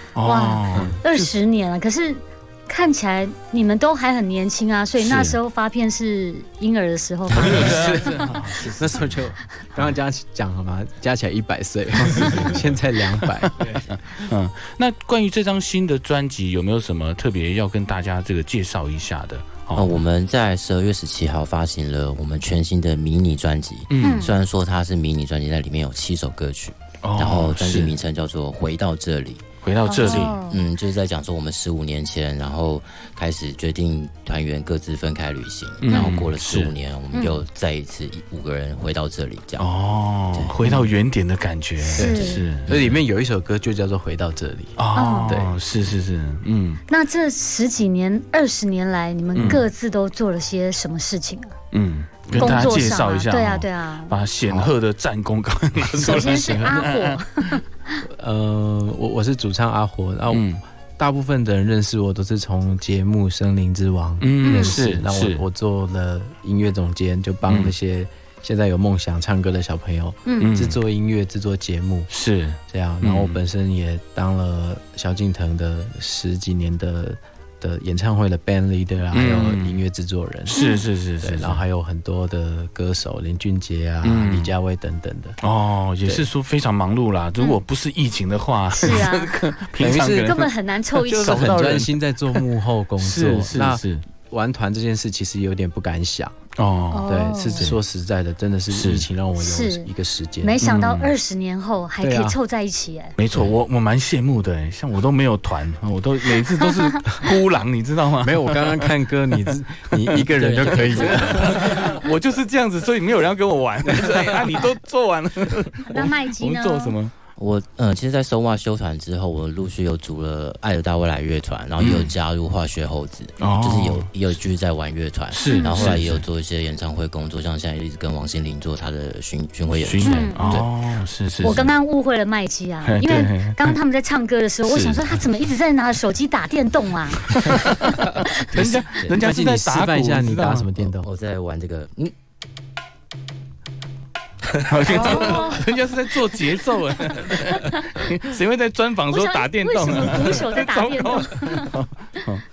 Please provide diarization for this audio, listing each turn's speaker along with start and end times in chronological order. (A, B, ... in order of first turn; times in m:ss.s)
0:00.2-0:01.3 A
0:00.2-0:08.4 B
0:00.7-0:01.0 C
0:05.0-0:05.4 A
0:07.3-0:09.0 A
0:07.3-0:13.7 C
0:13.9-0:19.9 A
0:19.7-0:29.4 D
0:23.9-0:24.3 A
0:24.0-0:24.3 B
0:27.0-0:27.9 A
0:29.6-0:30.4 A
0:29.9-0:30.6 B
0:30.0-0:39.7 D
0:35.8-0:36.7 A
0:37.1-0:37.4 B
0:39.6-0:42.8 A
0:40.6-0:40.9 C
0:41.9-0:42.4 B
0:42.0-0:45.6 C
0:44.8-0:46.8 A
0:45.0-0:45.4 B
0:46.9-0:51.5 B
0:49.4-0:49.6 A
0:51.7-0:57.6 A
0:52.3-0:52.9 C
0:52.3-0:54.1 B
0:54.5-0:54.7 C
0:56.0-0:56.9 C
0:56.0-0:57.9 B
0:58.0-1:12.1 C
1:00.3-1:00.6 A
1:04.2-1:05.4 A
1:04.4-1:04.8 B
1:07.5-1:07.7 A
1:10.3-1:10.5 B
1:10.4-1:10.8 A
1:12.1-1:13.4 A
1:12.7-1:20.6 C
1:19.1-1:19.8 A
1:20.4-1:21.6 A
1:20.5-1:20.8 B
1:21.2-1:25.4 C
1:24.0-1:24.5 A
1:25.4-1:30.4 A
1:28.8-1:29.4 B
1:29.8-1:36.4 C
1:30.2-1:31.2 B
1:31.1-1:32.4 A
1:33.0-1:34.0 A
1:36.6-1:37.8 A
1:36.9-1:37.7 B
1:37.1-1:40.6 C
1:38.7-1:39.1 A
1:39.4-1:39.9 B
1:40.4-1:43.2 B
1:40.6-1:41.1 A
1:42.0-1:42.4 C
1:43.2-1:48.9 A
1:48.2-1:51.6 C
1:50.0-1:57.2 A
1:50.4-1:51.9 D
1:55.9-1:57.0 B
1:57.4-2:10.7 D
2:01.8-2:02.1 A
2:03.4-2:04.1 A
2:05.3-2:06.2 A
2:05.5-2:06.0 B
2:09.8-2:11.7 A
2:10.0-2:10.7 B
2:11.4-2:17.4 B
2:12.8-2:13.8 A
2:14.7-2:15.0 A
2:17.3-2:20.8 A
2:18.5-2:21.1 C
2:21.0-2:22.1 D
2:24.7-2:32.4 A
2:24.9-2:25.7 B
2:26.3-2:27.8 B
2:29.1-2:31.8 B